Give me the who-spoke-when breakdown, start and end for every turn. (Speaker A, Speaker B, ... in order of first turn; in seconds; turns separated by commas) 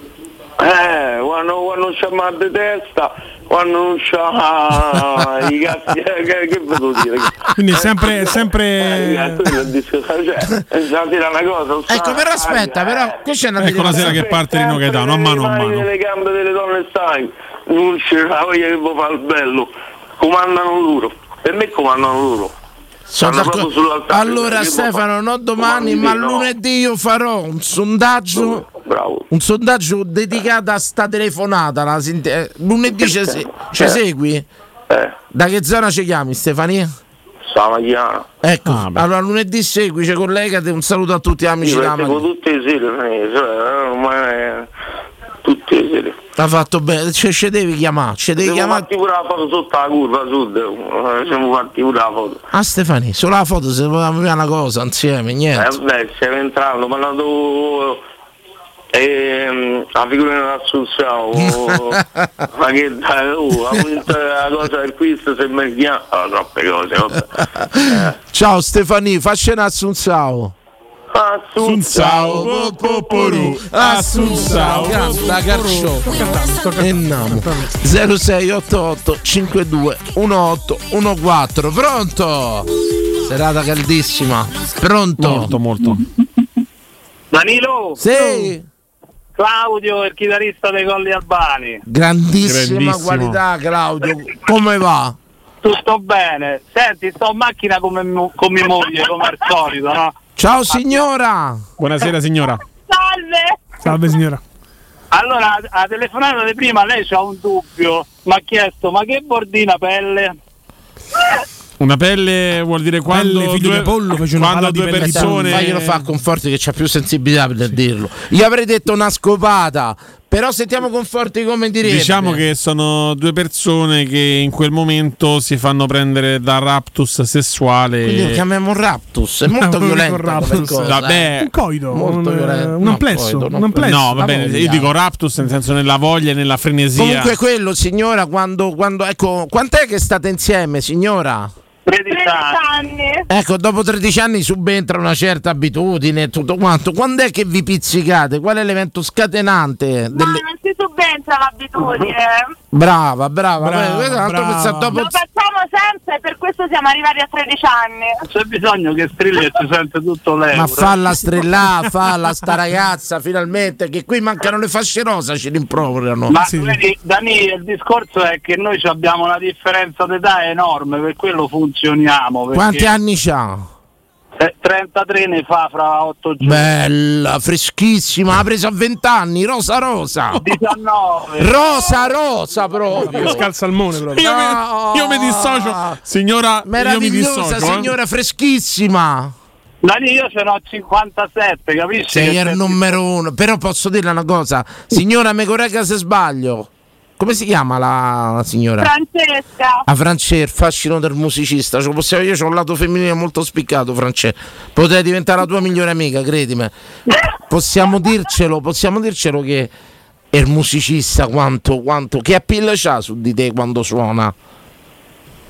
Speaker A: 0.6-13.2, Speaker B: 7.6-9.5, Speaker C: 11.9-14.3, Speaker D: 13.6-15.9, Speaker A: 13.9-22.5, Speaker C: 23.1-28.6, Speaker A: 23.2-25.0, Speaker A: 25.6-26.5, Speaker A: 28.3-29.3, Speaker C: 29.3-34.5, Speaker A: 33.0-34.0, Speaker A: 34.9-35.2, Speaker C: 35.3-36.9, Speaker A: 37.5-38.3, Speaker C: 38.4-42.2, Speaker D: 38.7-39.0, Speaker A: 41.6-44.7, Speaker A: 45.4-46.2, Speaker C: 46.4-48.9, Speaker A: 48.4-52.4, Speaker C: 52.5-55.8, Speaker A: 55.5-58.0, Speaker A: 58.9-62.0, Speaker C: 61.3-62.3, Speaker A: 62.5-67.3, Speaker C: 67.4-70.5, Speaker A: 71.1-72.4, Speaker D: 71.6-75.3, Speaker C: 72.0-76.2, Speaker B: 74.2-77.7, Speaker C: 76.8-82.7, Speaker C: 83.3-85.5, Speaker D: 85.2-86.0, Speaker E: 87.3-88.0, Speaker C: 88.0-88.7, Speaker E: 89.4-91.8, Speaker C: 91.9-95.2, Speaker D: 92.4-93.4, Speaker E: 95.6-100.1, Speaker C: 100.4-101.6, Speaker D: 101.8-102.6, Speaker F: 102.9-103.4, Speaker B: 103.8-104.4, Speaker E: 105.1-110.3, Speaker D: 111.8-116.1, Speaker B: 113.1-115.7, Speaker C: 115.0-122.4, Speaker D: 121.8-128.4, Speaker C: 128.0-131.3, Speaker B: 129.6-134.2, Speaker D: 130.8-131.5, Speaker C: 131.9-134.9, Speaker D: 133.8-137.3, Speaker C: 136.9-141.5, Speaker E: 141.9-142.6, Speaker F: 142.1-143.3, Speaker C: 143.3-150.4, Speaker F: 150.1-152.5, Speaker C: 152.7-155.1, Speaker B: 153.6-155.0, Speaker F: 154.9-158.2, Speaker E: 158.3-161.2, Speaker C: 160.5-166.4, Speaker E: 166.3-172.9, Speaker B: 166.4-166.8, Speaker C: 172.5-173.7, Speaker E: 174.4-176.7, Speaker C: 176.4-180.4, Speaker E: 180.4-182.0, Speaker C: 181.4-183.4, Speaker B: 182.9-184.3, Speaker D: 184.1-187.9, Speaker C: 184.2-186.0, Speaker C: 186.7-189.3, Speaker E: 189.8-192.8, Speaker C: 192.1-196.7, Speaker C: 197.2-198.9, Speaker F: 198.8-199.8, Speaker C: 199.9-206.7, Speaker C: 207.5-209.7, Speaker C: 210.3-214.3